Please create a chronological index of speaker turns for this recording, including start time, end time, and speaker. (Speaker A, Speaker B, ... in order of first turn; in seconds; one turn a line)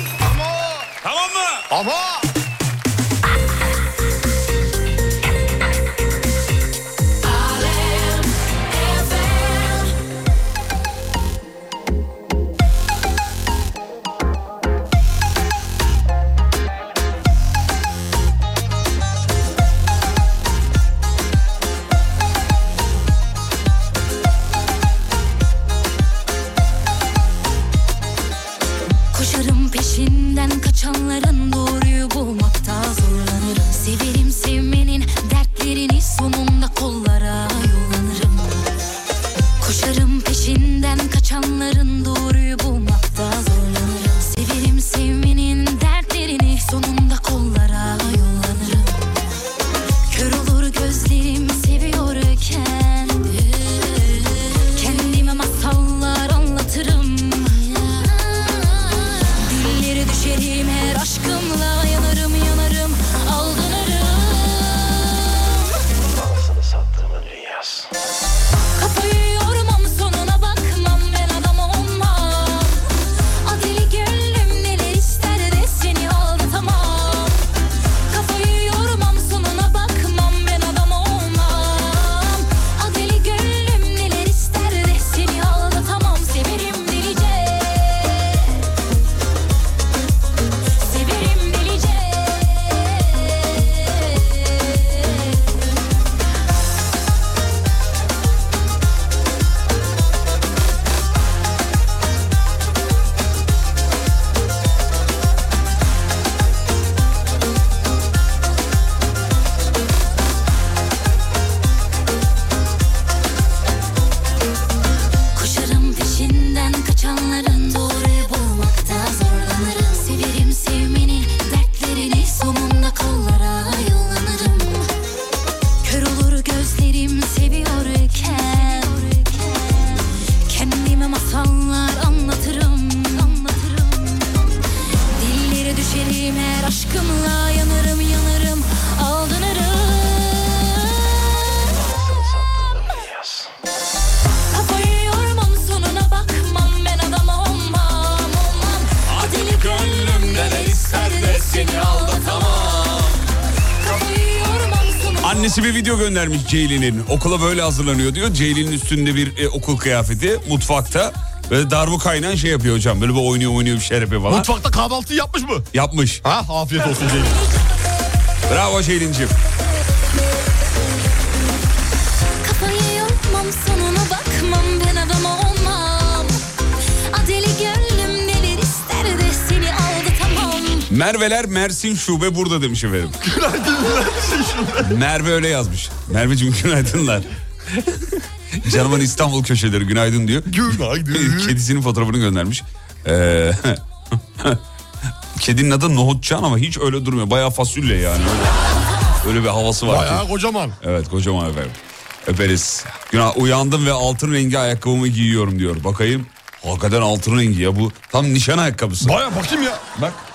Speaker A: 0.2-0.8
Speaker B: 1.0-1.7
Speaker A: 1.7-2.3
Speaker C: 29.1-38.7
Speaker C: 39.6-49.0
Speaker C: 50.1-65.5
Speaker D: 66.1-67.9
Speaker C: 68.8-72.8
Speaker C: 73.4-77.4
Speaker C: 78.1-88.6
Speaker C: 90.8-95.6
Speaker C: 115.3-124.9
Speaker C: 125.8-134.6
Speaker C: 135.2-141.3
Speaker D: 141.7-143.5
Speaker C: 144.5-153.2
Speaker B: 149.1-153.2
Speaker C: 153.8-155.6
Speaker B: 155.2-164.5
Speaker A: 164.3-165.7
Speaker B: 165.7-166.2
Speaker A: 166.2-167.4
Speaker B: 168.5-169.3
Speaker C: 172.4-176.4
Speaker C: 177.1-180.9
Speaker B: 180.9-183.2
Speaker A: 183.2-184.9
Speaker B: 184.8-188.0
Speaker B: 188.6-193.8
Speaker A: 190.5-191.6
Speaker B: 194.3-194.6
Speaker B: 195.3-198.6
Speaker B: 199.2-200.2
Speaker A: 199.9-200.8
Speaker B: 200.8-209.2
Speaker A: 209.0-209.8
Speaker B: 209.9-210.2